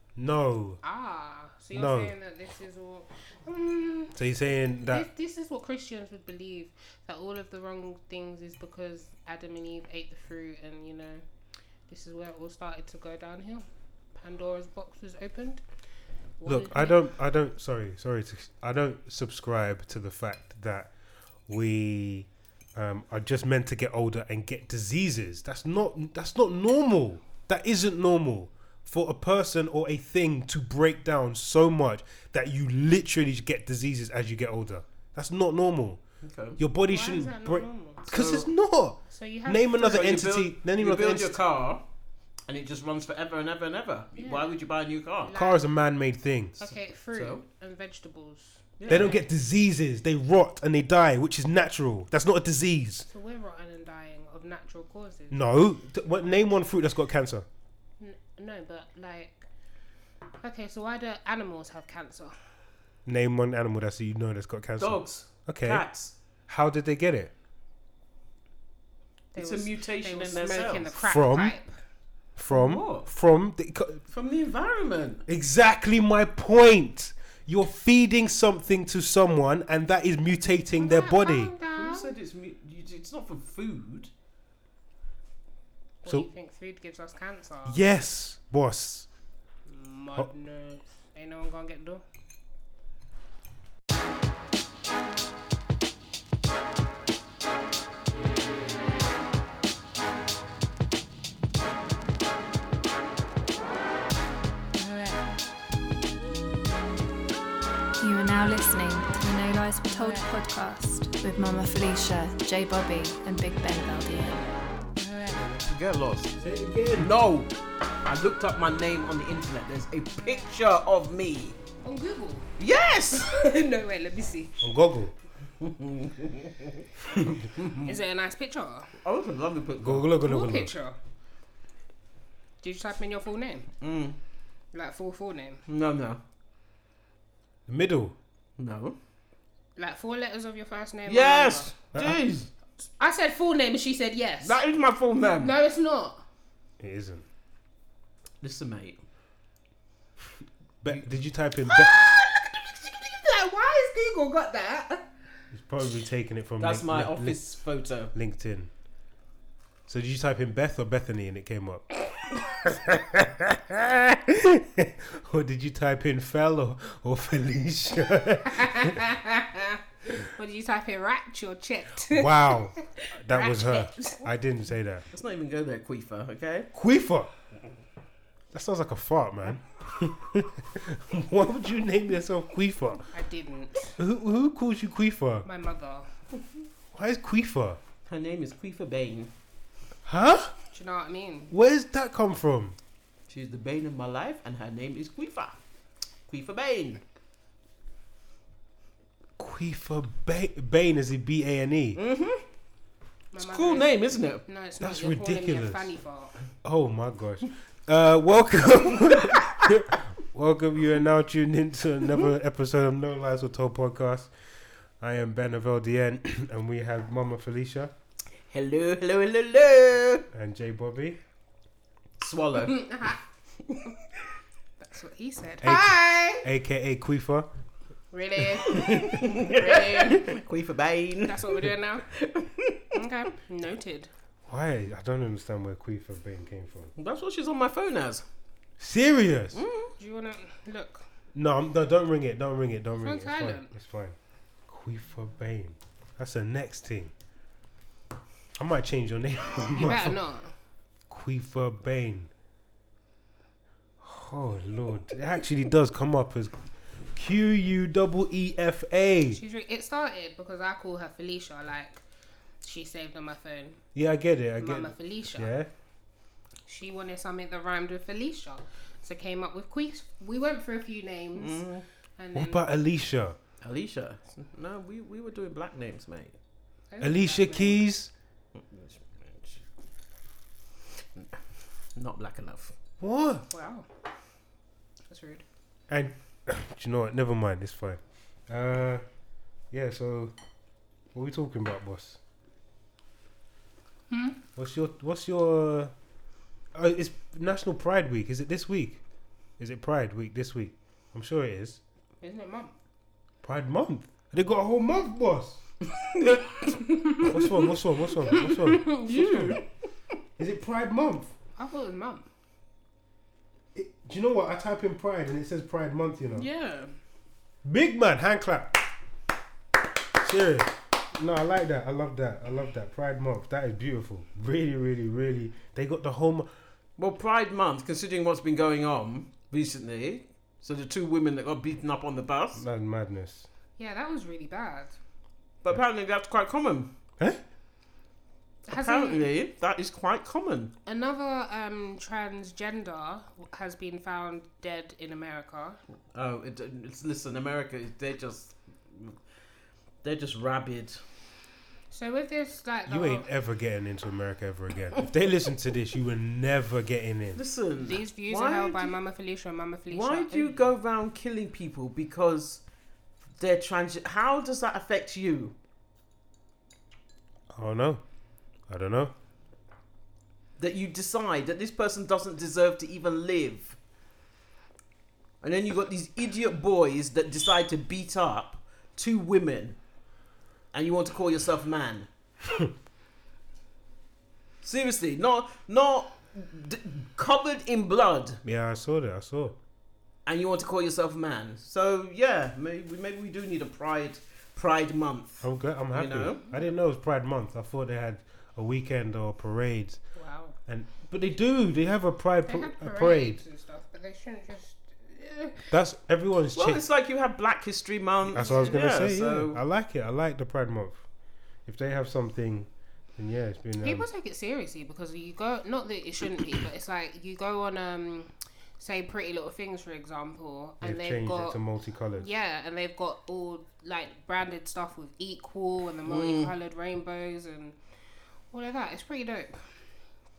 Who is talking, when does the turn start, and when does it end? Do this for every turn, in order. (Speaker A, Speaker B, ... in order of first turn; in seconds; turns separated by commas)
Speaker A: 0.1-0.8, Speaker B: 0.8-4.1, Speaker A: 1.7-2.1, Speaker A: 4.1-5.1, Speaker B: 4.8-11.2, Speaker B: 11.9-15.6, Speaker B: 16.4-17.0, Speaker A: 16.4-20.9, Speaker A: 21.5-36.0, Speaker C: 36.2-36.6, Speaker A: 36.6-41.4, Speaker B: 36.9-38.0, Speaker C: 38.1-38.5, Speaker B: 39.1-40.1, Speaker C: 39.8-41.8, Speaker C: 42.5-45.3, Speaker B: 44.1-44.5, Speaker B: 45.2-45.6, Speaker A: 45.3-46.5, Speaker B: 46.6-49.2, Speaker C: 47.1-47.4, Speaker C: 48.8-49.1, Speaker A: 48.9-53.1, Speaker B: 53.1-55.4, Speaker A: 55.3-57.5, Speaker B: 58.0-59.5, Speaker B: 60.4-62.3, Speaker A: 63.0-65.8, Speaker C: 64.8-66.1, Speaker A: 66.5-67.3, Speaker B: 69.3-71.8, Speaker C: 69.4-70.9, Speaker A: 71.0-71.5, Speaker A: 72.3-74.0, Speaker C: 72.5-73.1, Speaker C: 74.1-75.2, Speaker A: 75.3-81.5, Speaker B: 80.7-82.1, Speaker C: 81.7-84.1, Speaker B: 86.0-87.8, Speaker A: 87.7-89.1, Speaker B: 89.7-92.0, Speaker D: 108.0-114.5, Speaker B: 109.9-110.3, Speaker B: 115.0-115.6, Speaker C: 115.6-116.3, Speaker A: 116.4-117.1, Speaker C: 117.0-117.5, Speaker C: 118.0-121.6, Speaker B: 121.8-122.5, Speaker C: 122.6-123.3, Speaker B: 123.1-124.6, Speaker A: 124.6-125.1, Speaker C: 125.6-126.8, Speaker C: 127.5-128.0, Speaker B: 127.6-128.9, Speaker C: 129.0-130.1, Speaker A: 129.8-130.7, Speaker B: 130.2-131.0, Speaker B: 132.6-133.7, Speaker C: 133.8-134.2, Speaker B: 134.7-135.6, Speaker C: 135.7-136.2, Speaker A: 137.7-138.1, Speaker C: 138.6-139.0, Speaker B: 139.8-141.7, Speaker C: 141.1-142.5, Speaker A: 141.9-142.2, Speaker B: 143.0-144.6, Speaker C: 144.4-145.5, Speaker B: 145.4-146.2, Speaker A: 146.8-147.2, Speaker C: 148.4-149.0, Speaker A: 150.8-151.9, Speaker B: 151.7-155.1, Speaker A: 155.5-157.4, Speaker C: 156.6-158.1, Speaker A: 158.1-158.7, Speaker A: 159.9-169.0, Speaker B: 168.4-174.2, Speaker A: 172.1-175.0, Speaker C: 175.1-176.7, Speaker A: 176.7-177.3, Speaker A: 178.5-183.1, Speaker B: 183.1-184.0, Speaker A: 184.0-185.4, Speaker B: 185.4-186.1, Speaker A: 186.9-187.8, Speaker C: 188.1-189.3, Speaker A: 190.1-190.5, Speaker B: 190.7-191.5, Speaker A: 191.5-192.8, Speaker C: 193.3-195.6, Speaker C: 196.3-197.0, Speaker A: 199.4-202.0, Speaker C: 201.9-202.4, Speaker B: 203.3-206.3, Speaker C: 203.4-204.4, Speaker A: 204.8-205.9, Speaker A: 206.6-214.3, Speaker C: 209.1-209.6, Speaker A: 215.0-217.9, Speaker C: 218.5-220.2, Speaker A: 220.3-221.2, Speaker C: 222.2-222.8, Speaker B: 222.7-223.2, Speaker B: 224.8-226.5, Speaker A: 225.6-227.5, Speaker B: 228.1-230.4, Speaker C: 228.6-233.0, Speaker B: 231.2-232.1, Speaker B: 232.9-234.1, Speaker A: 234.5-236.9, Speaker C: 236.9-238.2, Speaker A: 238.8-239.6, Speaker C: 239.5-239.9, Speaker B: 240.0-241.0, Speaker A: 241.3-244.2, Speaker B: 243.0-243.7, Speaker A: 244.7-247.1, Speaker A: 248.6-250.2, Speaker B: 249.7-250.5, Speaker A: 251.1-252.3, Speaker A: 254.0-256.6, Speaker A: 257.1-259.4, Speaker B: 259.3-262.0, Speaker B: 262.6-263.8, Speaker A: 263.9-265.7, Speaker B: 264.6-265.5, Speaker B: 266.7-271.6, Speaker C: 271.4-271.8, Speaker B: 272.2-272.6, Speaker A: 272.3-273.4, Speaker C: 273.6-276.3, Speaker B: 276.9-277.8, Speaker A: 277.0-278.1, Speaker C: 278.5-279.6, Speaker C: 281.9-282.7, Speaker A: 283.0-283.4, Speaker B: 283.5-283.9, Speaker B: 285.1-285.4, Speaker A: 285.9-289.0, Speaker A: 289.7-290.3, Speaker A: 291.1-292.2, Speaker B: 294.1-294.4, Speaker A: 294.6-295.9, Speaker A: 296.7-299.0, Speaker A: 299.6-301.8, Speaker B: 302.2-302.7, Speaker A: 303.4-305.6, Speaker B: 306.6-307.7, Speaker A: 307.2-309.6, Speaker B: 308.2-309.6, Speaker C: 309.1-309.5, Speaker A: 310.4-311.3, Speaker B: 311.6-312.2, Speaker A: 313.7-316.5, Speaker B: 316.3-316.9, Speaker A: 317.6-318.8, Speaker A: 320.2-326.5, Speaker C: 327.0-332.6, Speaker A: 332.5-333.5, Speaker B: 333.8-334.9, Speaker C: 335.6-336.9, Speaker B: 338.6-339.3, Speaker C: 338.7-340.7, Speaker B: 340.9-345.8, Speaker C: 346.1-349.1, Speaker C: 350.0-351.0, Speaker B: 351.9-353.3, Speaker A: 352.9-357.4, Speaker C: 357.4-358.9, Speaker B: 357.8-360.7, Speaker C: 359.9-362.6, Speaker C: 363.4-365.5, Speaker A: 367.5-368.0, Speaker A: 368.7-369.1, Speaker C: 370.6-373.8, Speaker C: 375.4-379.8, Speaker C: 380.7-382.1, Speaker C: 384.6-388.4, Speaker A: 388.4-389.6, Speaker C: 390.2-396.4, Speaker A: 395.4-400.0, Speaker B: 400.1-400.6, Speaker A: 400.7-403.4, Speaker B: 402.5-405.7, Speaker A: 405.7-406.8, Speaker C: 406.5-409.6, Speaker A: 408.3-411.0, Speaker B: 408.4-408.8, Speaker A: 411.6-414.1, Speaker B: 413.8-421.6, Speaker A: 420.8-422.3, Speaker B: 422.2-427.8, Speaker C: 426.0-426.5, Speaker B: 428.5-429.8